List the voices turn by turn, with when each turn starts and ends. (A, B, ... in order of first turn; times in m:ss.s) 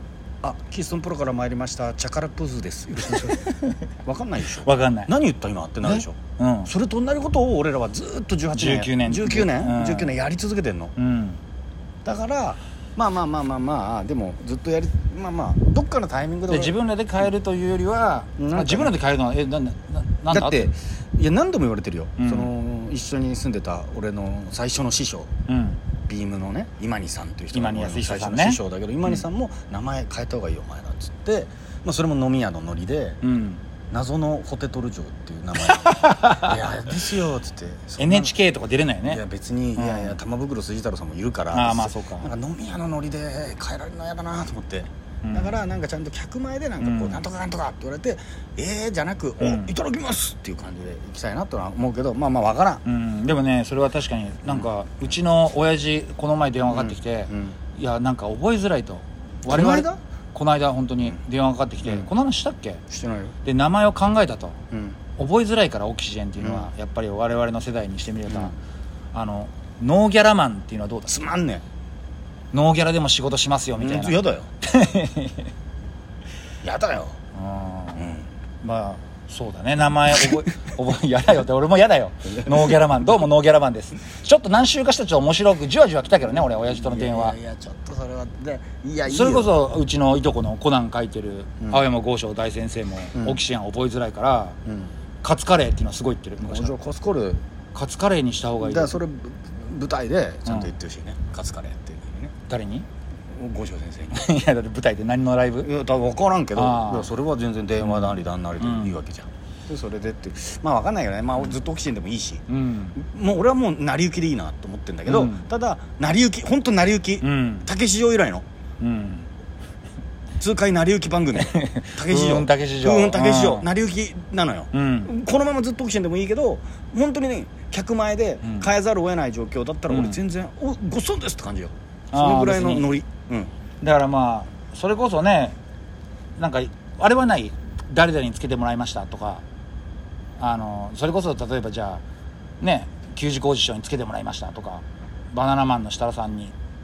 0:00.4-0:11.0 A
0:03.2-0:03.7 B
0:04.6-0:05.1 B
0:05.8-0:06.7 B
0:08.6-0:10.2 B
0:11.0-0:11.4 B
0:12.0-0:16.8 A
0:16.5-0:20.7 B
0:18.4-0:19.0 A
0:20.3-0:25.3 A
0:22.2-0:22.5 B
0:25.5-0:25.8 B
0:26.1-0:33.2 A
0:27.5-0:29.2 B
0:33.2-0:33.6 B
0:33.9-0:38.4 A
0:35.7-0:36.5 B
0:38.0-0:39.2 B
0:39.0-0:52.8 A
0:39.8-0:40.2 B
0:41.5-0:42.3 B
0:45.2-0:45.6 B
0:46.8-0:47.2 B
0:49.4-0:49.7 B
0:52.8-1:02.8 B
0:56.7-0:57.6 A
0:59.5-1:00.0 A
1:01.8-1:02.1 A
1:02.9-1:03.4 A
1:03.4-1:04.6 B
1:04.7-1:05.0 A
1:05.2-1:08.6 B
1:06.4-1:06.7 A
1:08.3-1:08.6 A
1:09.1-1:11.1 B
1:11.1-1:11.6 A
1:12.5-1:15.5 B
1:13.8-1:14.5 A
1:16.6-1:17.2 A
1:17.4-1:18.1 B
1:18.0-1:18.3 A
1:18.6-1:27.4 B
1:22.4-1:22.8 A
1:26.2-1:29.6 A
1:29.1-1:34.6 B
1:33.1-1:33.4 A
1:34.7-1:35.0 A
1:35.2-1:36.8 B
1:36.4-1:37.4 A
1:37.7-1:39.0 B
1:38.6-1:42.3 A
1:42.5-1:42.9 B
1:43.3-1:44.3 A
1:44.1-1:45.7 B
1:45.6-1:52.4 A
1:46.6-1:47.1 B
1:47.8-1:49.0 B
1:52.5-1:53.0 B
1:53.0-1:58.5 A
1:55.1-1:55.5 B
1:57.2-1:57.7 B
1:58.8-1:59.3 B
2:00.4-2:13.5 A
2:01.4-2:03.7 B
2:04.7-2:05.1 B
2:08.4-2:08.7 B
2:09.9-2:10.2 B
2:12.1-2:12.9 B
2:13.8-2:15.6 B
2:16.4-2:19.4 B
2:20.4-2:22.0 B
2:22.6-2:26.5 B